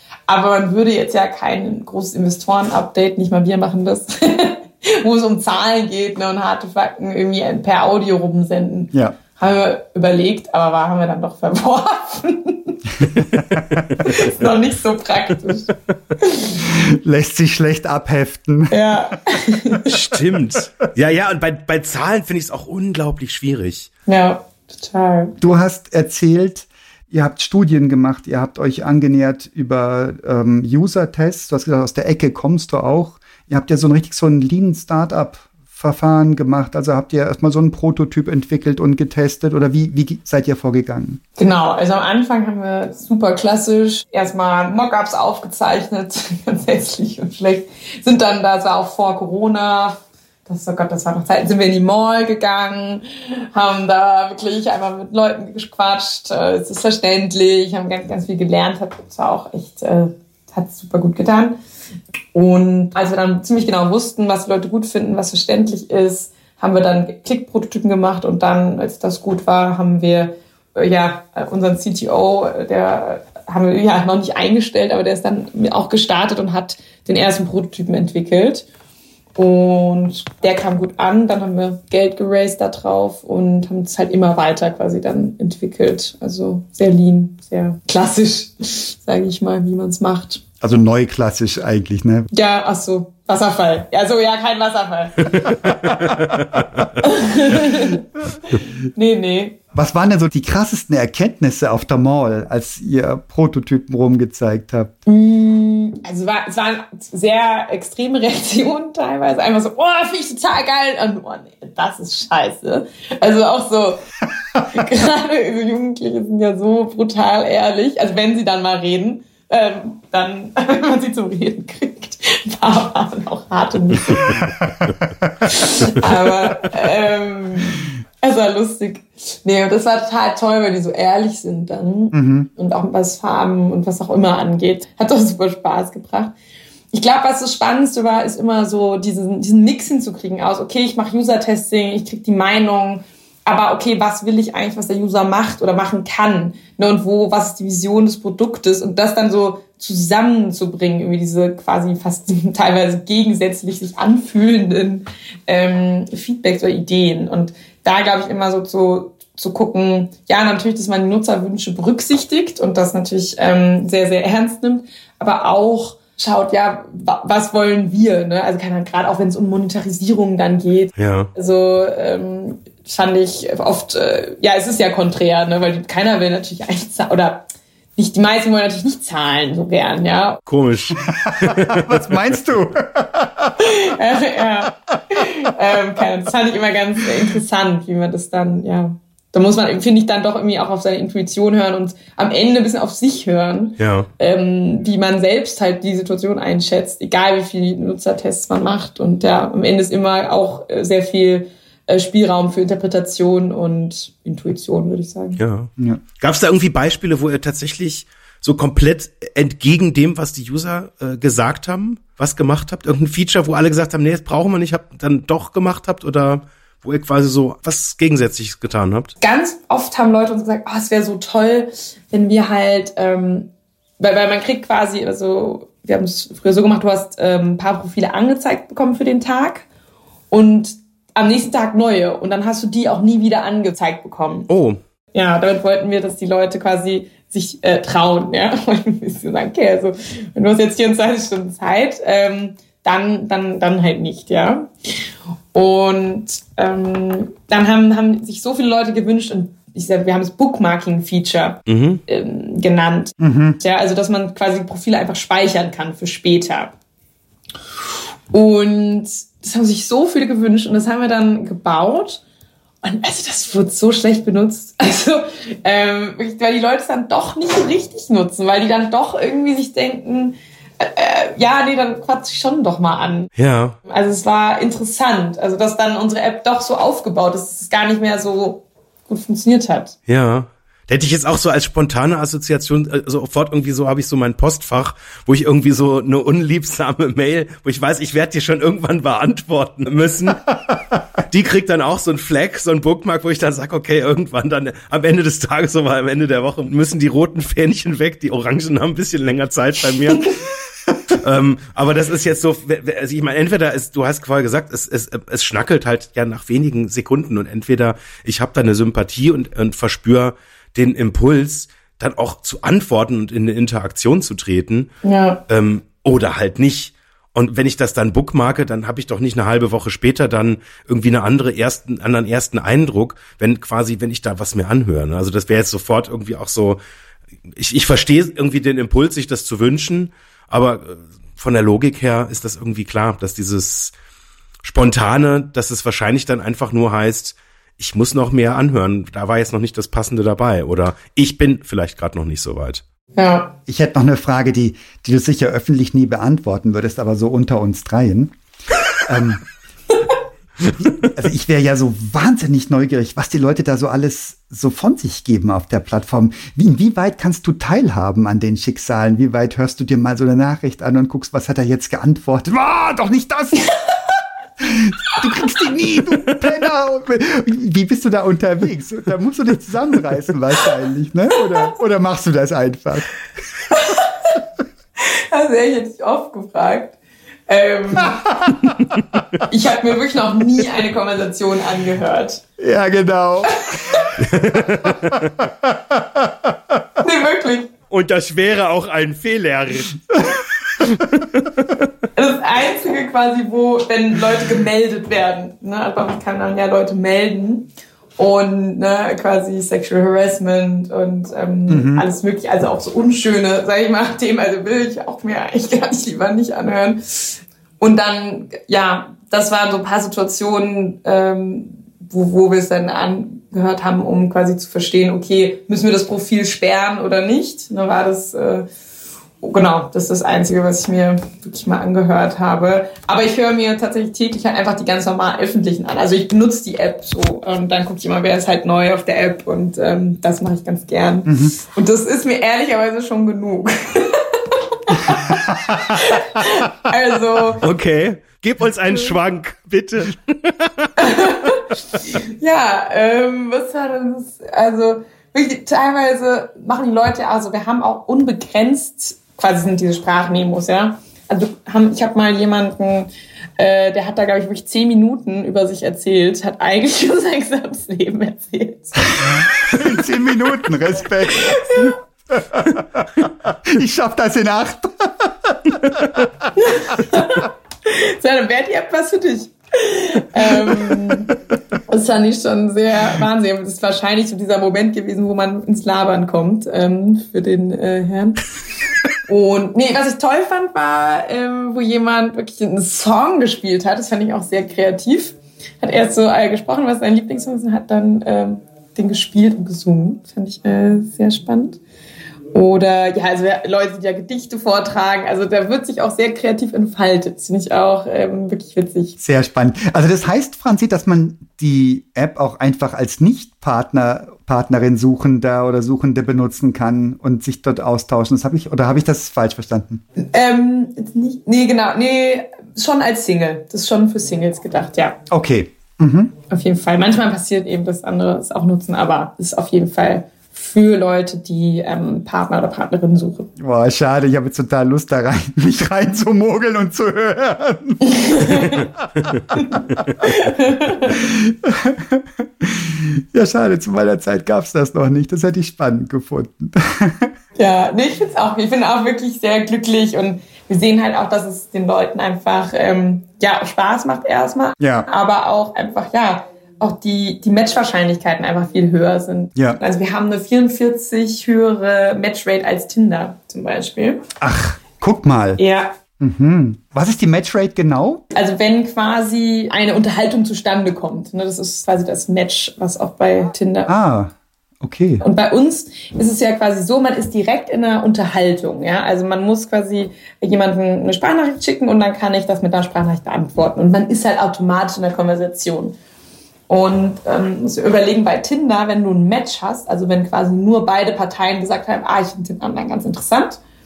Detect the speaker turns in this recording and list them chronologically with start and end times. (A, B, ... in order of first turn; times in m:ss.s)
0:00.3-0:13.1 A
0:13.0-0:13.8 B
0:14.0-0:16.6 A
0:16.6-0:18.9 B
0:18.7-0:19.9 A
0:19.9-0:23.9 C
0:24.1-0:25.4 A
0:25.4-0:41.2 B
0:41.4-1:01.6 A
1:02.3-1:18.7 A
1:19.4-1:30.4 A
1:30.6-1:32.3 B
1:32.3-1:35.9 A
1:35.4-1:36.9 C
1:37.0-1:38.0 A
1:38.9-1:39.6 A
1:39.7-1:44.9 B
1:45.0-1:54.0 A
1:54.7-2:04.4 A
2:04.1-2:05.3 B
2:05.4-2:16.3 A
2:12.1-2:12.5 B
2:16.9-3:00.4 A
2:51.0-2:51.3 C
3:00.5-3:02.2 C
3:01.1-3:03.7 B
3:03.6-3:25.4 A
3:13.8-3:14.1 C
3:25.4-3:39.1 C
3:39.2-3:43.5 A
3:44.0-3:49.6 A
3:50.3-3:54.5 A
3:54.5-3:54.8 C
3:55.1-4:16.7 A
4:11.7-4:12.0 C
4:13.2-4:13.6 B
4:18.3-4:22.2 A
4:22.8-4:33.3 A
4:33.4-4:33.8 C
4:33.9-4:39.9 A
4:40.1-4:50.7 C
4:51.2-5:00.3 C
5:01.1-5:14.9 C
5:15.0-5:15.4 A
5:15.5-5:26.8 C
5:27.6-5:33.9 C
5:34.6-5:42.8 C
5:43.1-5:43.5 A
5:43.7-5:48.3 B
5:49.0-5:49.4 B
5:51.1-6:03.7 B
6:04.6-6:13.1 B
6:13.7-6:14.1 A
6:15.3-6:17.0 A
6:17.5-6:18.2 A
6:18.0-6:19.2 B
6:19.5-6:22.4 A
6:22.6-6:24.1 B
6:23.6-6:24.1 A
6:24.2-6:25.4 C
6:25.4-6:26.8 B
6:27.0-6:27.7 A
6:27.9-6:30.2 C
6:30.2-6:30.4 B
6:30.8-6:31.7 C
6:32.2-6:58.7 A
6:41.7-6:42.0 B
6:59.4-7:17.6 A
7:11.2-7:11.5 B
7:15.2-7:16.2 B
7:17.6-7:20.9 C
7:21.0-7:21.7 A
7:22.2-7:39.8 A
7:39.2-7:41.6 B
7:41.3-7:41.9 A
7:42.3-7:46.2 B
7:46.5-7:51.3 A
7:51.9-7:58.4 A
7:59.2-8:11.8 A
8:12.5-8:19.1 A
8:19.2-8:30.0 B
8:30.2-8:35.2 A
8:35.3-8:36.3 B
8:36.5-8:43.5 A
8:43.6-8:49.0 B
8:48.0-8:48.8 A
8:49.5-8:51.2 A
8:51.1-8:57.3 B
8:57.6-9:14.2 A
9:04.8-9:05.1 B
9:14.4-9:15.6 B
9:15.6-9:16.0 A
9:16.2-9:18.2 B
9:18.3-9:23.9 A
9:23.9-9:25.2 B
9:25.2-9:36.0 A
9:36.7-9:43.6 A